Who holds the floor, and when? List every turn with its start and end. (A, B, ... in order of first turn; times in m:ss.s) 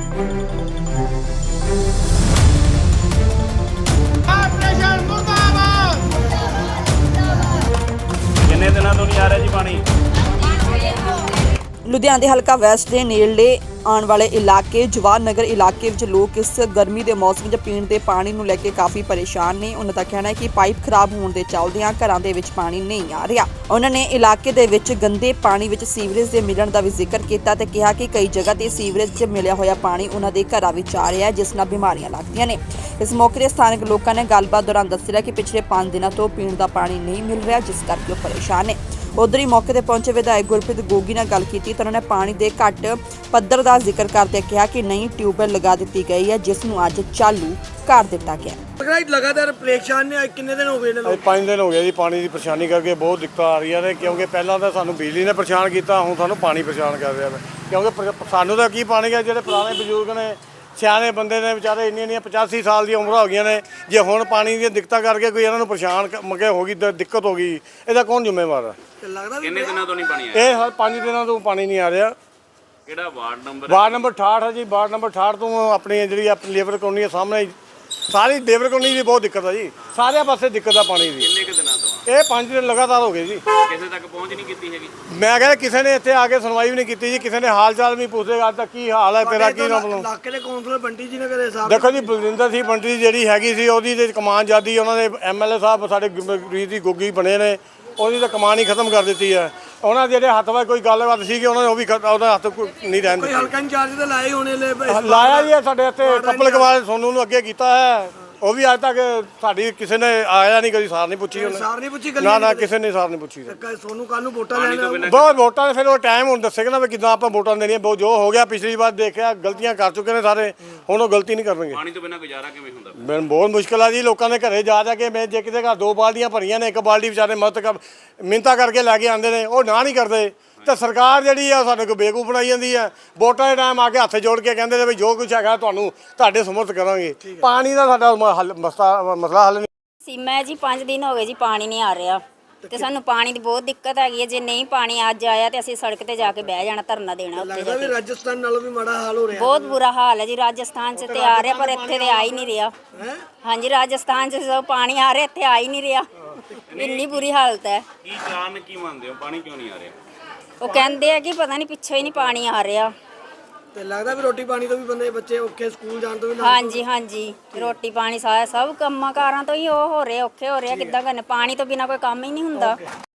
0:08.5-0:09.8 A
0:11.9-0:48.6 B
0:48.8-0:51.3 C
0:51.0-1:08.8 D
1:09.0-1:09.8 C
1:09.4-1:10.5 A
1:10.3-1:12.1 D
1:12.9-1:14.1 A
1:13.7-1:17.6 D
1:18.1-1:21.3 D
1:21.2-1:22.0 A
1:22.0-1:23.4 D
1:23.6-1:24.9 A
1:25.1-1:30.1 D
1:29.2-1:32.1 C
1:31.6-1:43.5 D
1:43.1-1:46.8 C
1:44.9-1:53.6 D
1:51.3-1:52.7 C
1:53.4-1:55.0 C
1:54.5-1:55.3 A
1:55.0-2:01.8 D
2:01.7-2:03.0 A
2:03.0-2:19.7 D
2:20.0-2:28.0 E
2:27.4-2:29.8 C
2:29.3-2:32.8 E
2:31.0-2:32.4 D
2:33.0-2:33.2 C
2:33.4-2:36.1 E
2:36.7-2:37.2 A
2:36.8-2:37.8 E
2:38.0-2:39.9 A
2:40.6-2:42.9 E
2:40.7-2:41.0 C
2:43.8-2:46.8 C
2:46.4-2:52.8 E